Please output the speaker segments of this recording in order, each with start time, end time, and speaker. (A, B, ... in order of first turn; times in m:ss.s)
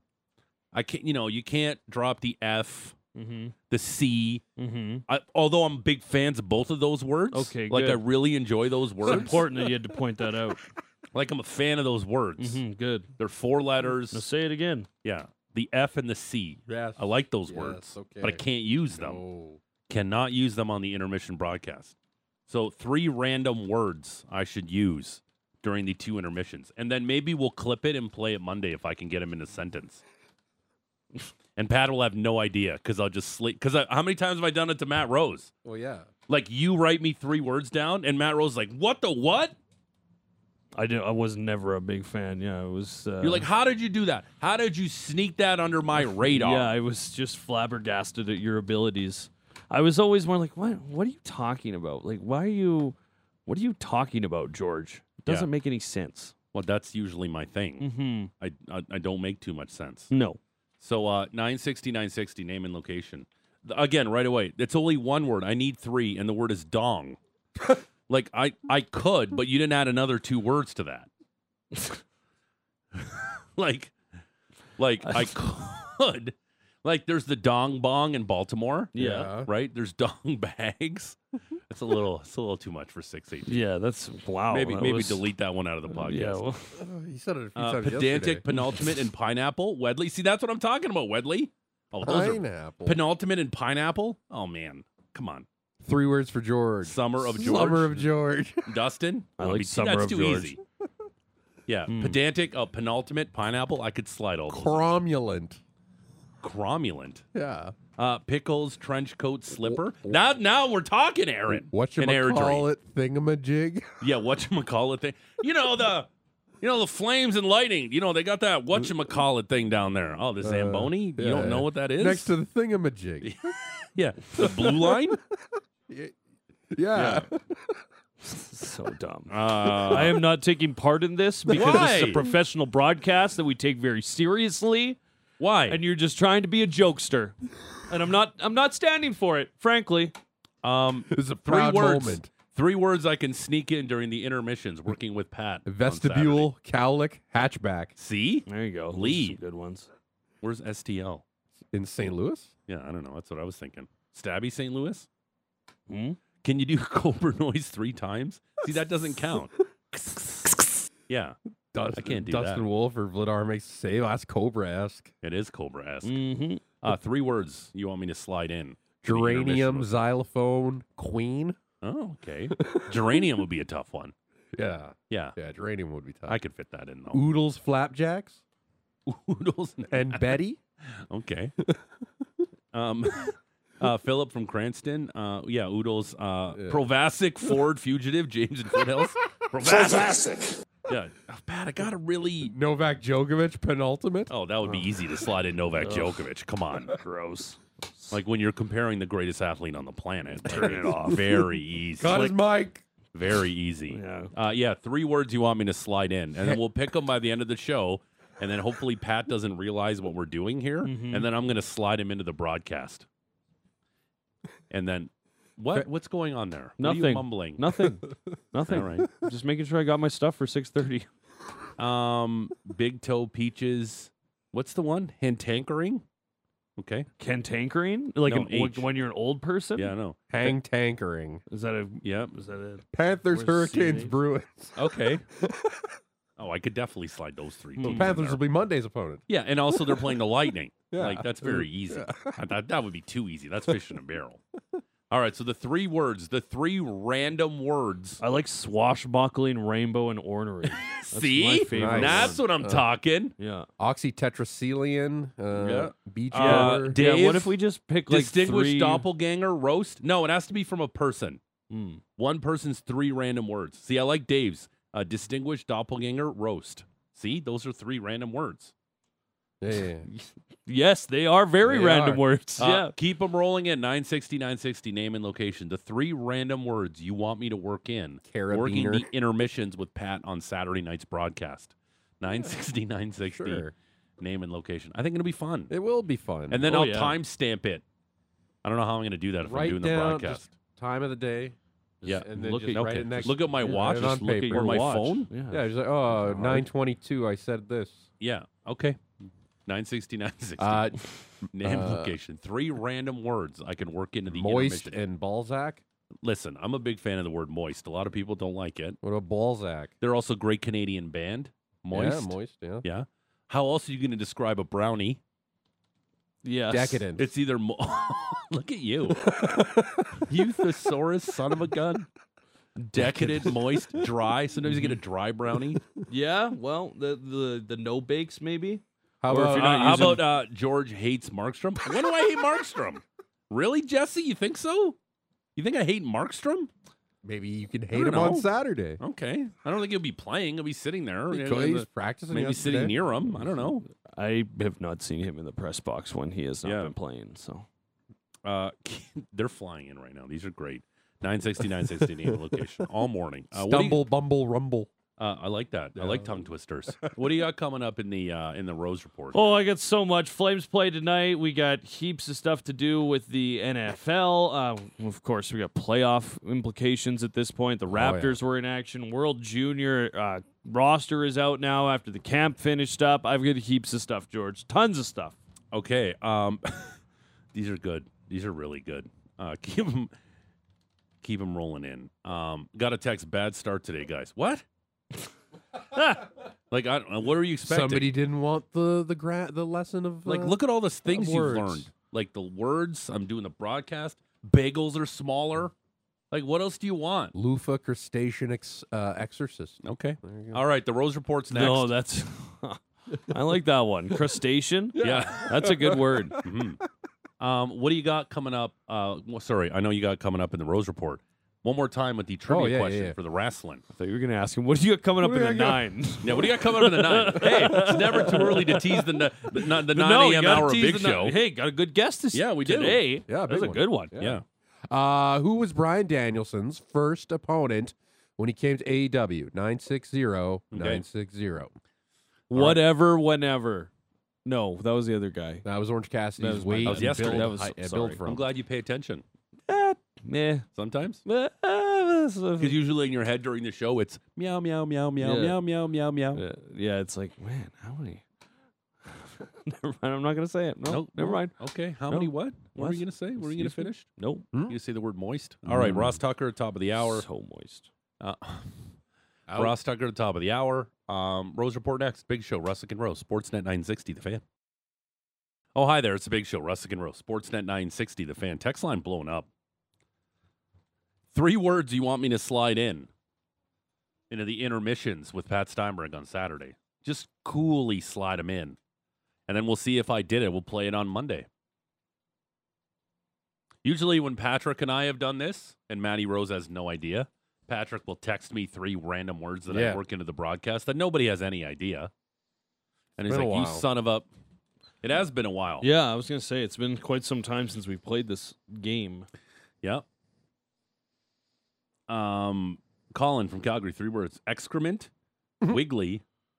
0:00.7-0:03.0 A
0:03.2-0:03.5 B
0:03.7-0:04.4 A
0:04.6-0:05.0 B
0:05.1-0:09.5 A
0:07.3-0:08.0 B
0:09.1-0:10.6 B
0:11.1-0:12.6 A
0:12.4-0:13.1 B
0:13.2-0:14.3 A
0:14.1-0:14.9 B
0:15.0-0:19.2 A
0:16.7-0:19.6 C
0:19.9-0:22.0 A
0:22.5-0:30.0 A
0:31.6-0:35.5 A
0:35.6-0:36.1 C
0:36.3-0:39.6 A
0:40.8-0:43.5 B
0:43.2-0:46.7 A
0:46.3-0:56.3 B
0:56.5-1:00.1 A
0:57.8-0:58.3 B
1:00.1-1:00.4 B
1:00.8-1:07.2 A
1:08.1-1:11.1 A
1:13.0-1:13.9 A
1:14.8-1:21.2 A
1:15.1-1:15.3 B
1:18.9-1:19.3 B
1:19.0-1:19.5 C
1:21.7-1:23.6 A
1:23.5-1:25.2 B
1:24.5-1:26.4 A
1:25.9-1:26.8 B
1:26.8-1:28.4 C
1:27.6-1:35.5 A
1:32.0-1:33.0 C
1:35.8-1:38.7 C
1:36.8-1:38.1 A
1:38.6-1:40.6 A
1:39.4-1:40.6 B
1:41.7-1:44.9 A
1:41.9-1:42.2 B
1:44.5-1:45.6 C
1:46.4-1:47.2 A
1:47.3-1:47.8 C
1:48.0-1:52.7 A
1:49.6-1:50.2 C
1:51.5-1:53.9 C
1:54.0-1:56.1 A
1:56.6-2:02.4 A
2:00.4-2:03.4 C
2:03.2-2:05.2 A
2:04.4-2:05.2 C
2:06.7-2:07.8 C
2:07.0-2:07.3 A
2:08.3-2:15.0 B
2:09.3-2:10.2 A
2:11.5-2:12.2 A
2:15.4-2:15.8 A
2:15.7-2:17.4 B
2:17.9-2:20.2 B
2:20.6-2:26.5 A
2:21.1-2:22.3 C
2:25.6-2:27.9 C
2:28.0-2:29.4 A
2:28.5-2:29.9 B
2:30.4-2:31.2 A
2:31.7-2:32.5 C
2:32.7-2:35.1 A
2:35.9-2:36.2 B
2:36.4-2:41.4 A
2:41.7-2:45.1 C
2:42.0-2:42.6 A
2:45.2-2:46.2 A
2:46.0-2:46.6 B
2:46.8-2:49.9 A
2:49.0-2:51.6 C
2:51.8-2:54.1 A
2:54.5-2:56.4 C
2:55.1-2:55.4 A
2:56.3-2:57.2 A
2:57.1-2:58.4 C
2:59.1-3:00.4 A
2:59.9-3:00.6 C
3:01.0-3:01.5 A
3:02.7-3:10.3 A
3:06.6-3:06.8 C
3:10.9-3:12.5 A
3:12.4-3:14.3 C
3:14.3-3:17.0 A
3:15.8-3:16.1 B
3:17.0-3:18.2 B
3:18.1-3:22.3 A
3:20.4-3:21.2 B
3:22.0-3:22.8 C
3:23.1-3:33.1 A
3:23.9-3:24.3 B
3:30.8-3:31.3 B
3:34.7-3:37.8 A
3:36.8-3:41.1 B
3:38.7-3:39.1 A
3:41.8-3:46.0 A
3:46.8-3:47.1 A
3:47.2-3:50.5 B
3:48.2-3:48.9 A
3:49.8-3:50.2 A
3:50.3-3:51.4 C
3:51.5-3:54.2 B
3:52.0-3:52.3 A
3:52.9-3:56.0 C
3:54.8-3:55.2 A
3:56.4-3:58.4 A
3:57.8-3:58.1 B
3:57.8-3:59.2 C
3:59.3-4:04.4 A
3:59.8-4:00.1 C
4:00.9-4:02.4 C
4:05.1-4:08.2 A
4:08.2-4:12.4 B
4:10.8-4:13.3 A
4:11.7-4:12.8 C
4:13.4-4:13.7 B
4:13.8-4:17.0 C
4:15.6-4:17.6 A
4:16.3-4:19.0 B
4:18.1-4:21.4 A
4:21.7-4:22.0 B
4:22.2-4:28.7 A
4:29.6-4:30.1 C
4:30.1-4:32.9 B
4:31.6-4:32.2 C
4:32.6-4:43.7 A
4:38.3-4:39.1 C
4:42.3-4:42.6 C
4:43.2-4:43.7 C
4:44.2-4:45.7 A
4:45.7-4:46.7 C
4:46.5-4:47.8 A
4:46.7-4:47.2 B
4:48.6-4:50.5 A
4:49.4-4:51.6 C
4:52.0-4:56.6 B
4:52.0-4:55.3 A
4:52.1-4:54.9 C
4:55.5-4:58.1 C
4:58.2-4:59.1 A
4:59.7-5:01.0 A
5:00.6-5:02.2 C
5:01.5-5:05.0 A
5:04.3-5:05.8 C
5:06.2-5:09.0 A
5:09.0-5:09.9 C
5:10.0-5:15.2 A
5:11.9-5:12.8 C
5:16.4-5:17.0 B
5:16.7-5:17.3 C
5:17.2-5:19.4 A
5:19.3-5:20.2 C
5:20.2-5:22.1 A
5:22.8-5:23.5 B
5:23.0-5:25.8 A
5:26.1-5:30.3 B
5:29.2-5:30.3 C
5:29.5-5:35.0 A
5:35.6-5:36.7 A
5:37.2-5:39.0 C
5:37.9-5:43.8 A
5:41.3-5:43.0 C
5:44.2-5:47.7 B
5:46.6-5:46.9 A
5:48.4-5:54.1 A
5:53.5-5:54.9 C
5:55.2-5:59.6 A
5:56.0-5:56.3 C
5:59.3-6:15.4 B
6:07.9-6:08.4 C
6:15.7-6:17.0 A
6:17.5-6:20.1 A
6:21.2-6:24.6 A
6:26.7-6:28.1 A
6:27.6-6:31.9 C
6:30.2-6:35.7 A
6:36.3-6:37.4 A
6:37.3-6:40.6 C
6:39.8-6:41.9 A
6:41.5-6:46.4 B
6:45.0-6:46.5 C
6:45.0-6:45.6 A
6:46.4-6:46.8 A
6:47.4-6:53.8 A
6:52.5-6:53.2 C
6:53.9-6:59.0 B
6:55.2-6:55.8 C
6:56.2-7:01.4 A
6:59.9-7:04.2 B
7:02.3-7:03.1 A
7:03.3-7:11.7 C
7:04.2-7:04.4 A
7:10.7-7:11.0 A
7:12.5-7:13.9 B
7:14.4-7:15.6 B
7:15.6-7:18.4 C
7:16.4-7:18.2 B
7:16.8-7:17.5 A
7:18.2-7:19.2 A
7:19.7-7:20.7 B
7:20.8-7:21.2 A
7:21.3-7:22.8 B
7:22.6-7:26.4 A
7:25.2-7:25.6 B
7:26.3-7:28.2 B
7:29.0-7:31.6 B
7:30.9-7:34.1 A
7:32.1-7:34.5 B
7:34.7-7:37.2 A
7:35.7-7:36.2 B
7:37.0-7:37.9 B
7:38.2-7:38.7 A
7:39.5-7:39.8 C
7:39.5-7:44.4 A
7:45.8-7:49.5 A
7:51.3-7:53.1 A
7:54.3-7:58.8 A
7:59.5-8:01.5 A
8:03.8-8:12.1 A
8:09.7-8:10.0 C
8:13.2-8:14.3 A
8:13.3-8:13.8 C
8:15.0-8:15.9 A
8:15.8-8:19.3 B
8:22.1-8:25.1 A
8:25.7-8:26.2 A